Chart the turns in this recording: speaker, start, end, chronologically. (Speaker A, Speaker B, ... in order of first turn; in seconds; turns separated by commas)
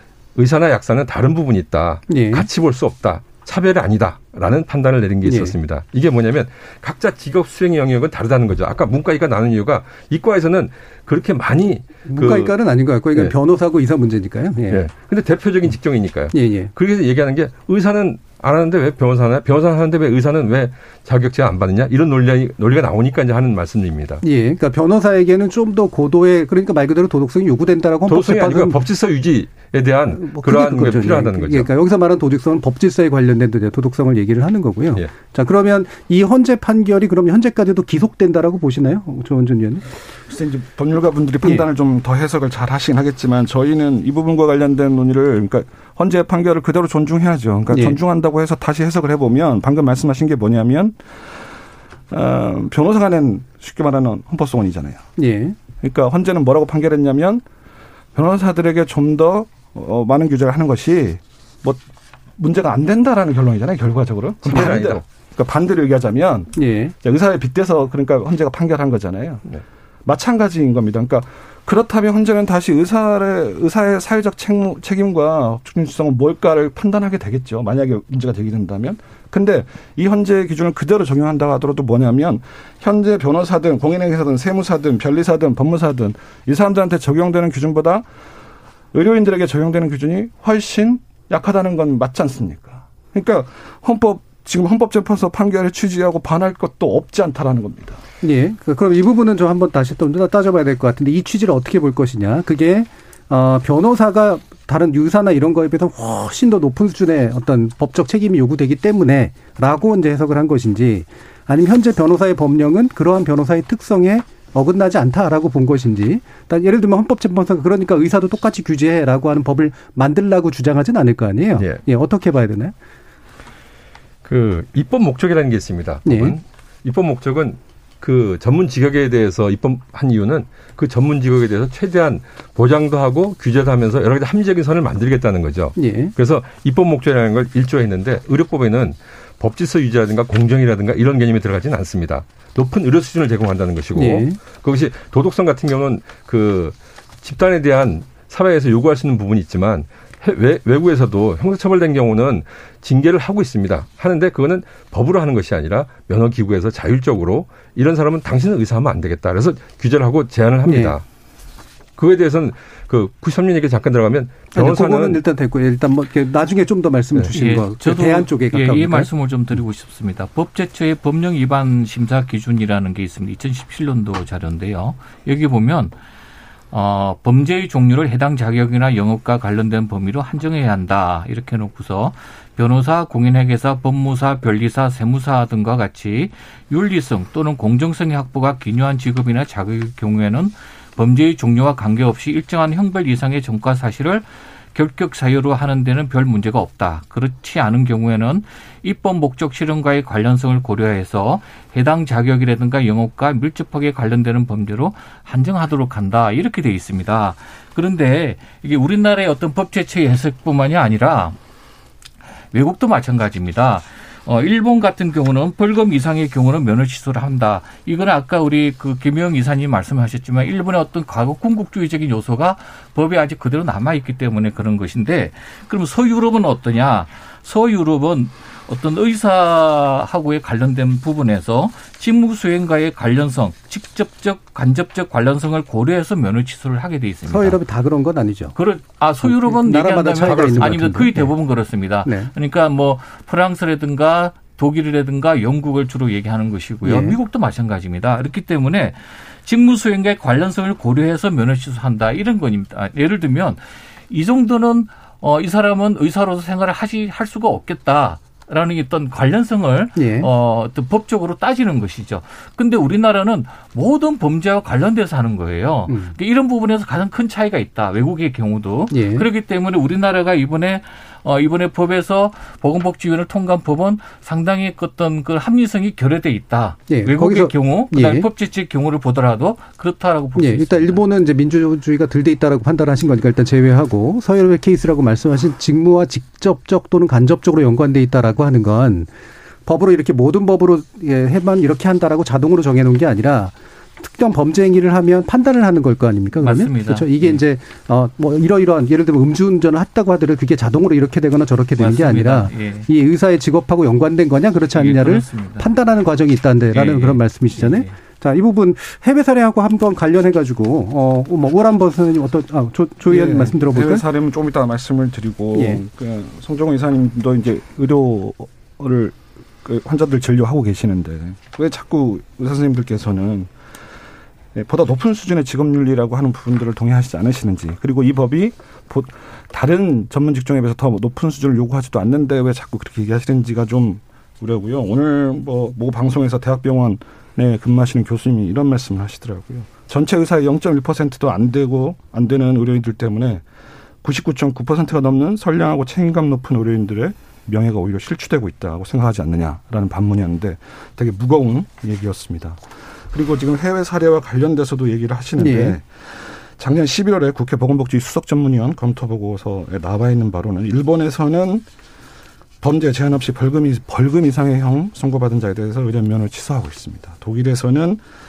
Speaker A: 0.3-12.6, Speaker B: 2.1-2.5, Speaker B: 5.2-5.5, Speaker B: 12.1-14.8, Speaker A: 14.7-24.2, Speaker B: 16.3-16.7, Speaker B: 24.2-28.8, Speaker A: 28.1-31.7, Speaker B: 30.1-39.9, Speaker C: 40.3-51.0, Speaker B: 47.7-48.0, Speaker C: 52.1-55.1, Speaker B: 55.2-55.6, Speaker C: 55.8-57.4, Speaker C: 58.1-61.8, Speaker C: 62.4-69.4, Speaker A: 64.4-65.0, Speaker B: 64.5-64.8, Speaker B: 66.5-66.9, Speaker C: 70.0-88.0, Speaker C: 88.9-98.0, Speaker B: 98.2-122.7, Speaker A: 121.5-121.8, Speaker A: 124.2-161.0, Speaker B: 126.0-126.4, Speaker B: 135.8-136.1, Speaker B: 143.9-144.4, Speaker B: 160.7-160.9, Speaker A: 162.0-165.2, Speaker B: 164.5-169.1, Speaker D: 167.3-175.9, Speaker D: 176.7-211.3, Speaker D: 212.5-237.6, Speaker B: 237.2-238.5, Speaker D: 238.5-281.0, Speaker B: 239.2-241.3, Speaker A: 240.3-240.8, Speaker B: 242.0-242.3, Speaker B: 246.8-247.2, Speaker B: 259.9-260.3, Speaker B: 268.9-269.2, Speaker B: 276.9-278.2, Speaker B: 280.4-289.1, Speaker B: 289.6-314.0, Speaker D: 296.4-297.4, Speaker D: 301.8-302.9, Speaker D: 304.7-305.7, Speaker D: 306.7-308.0, Speaker C: 313.1-323.5, Speaker B: 315.5-315.8, Speaker C: 324.5-343.4, Speaker C: 344.0-361.6, Speaker B: 355.4-355.8, Speaker C: 362.6-368.0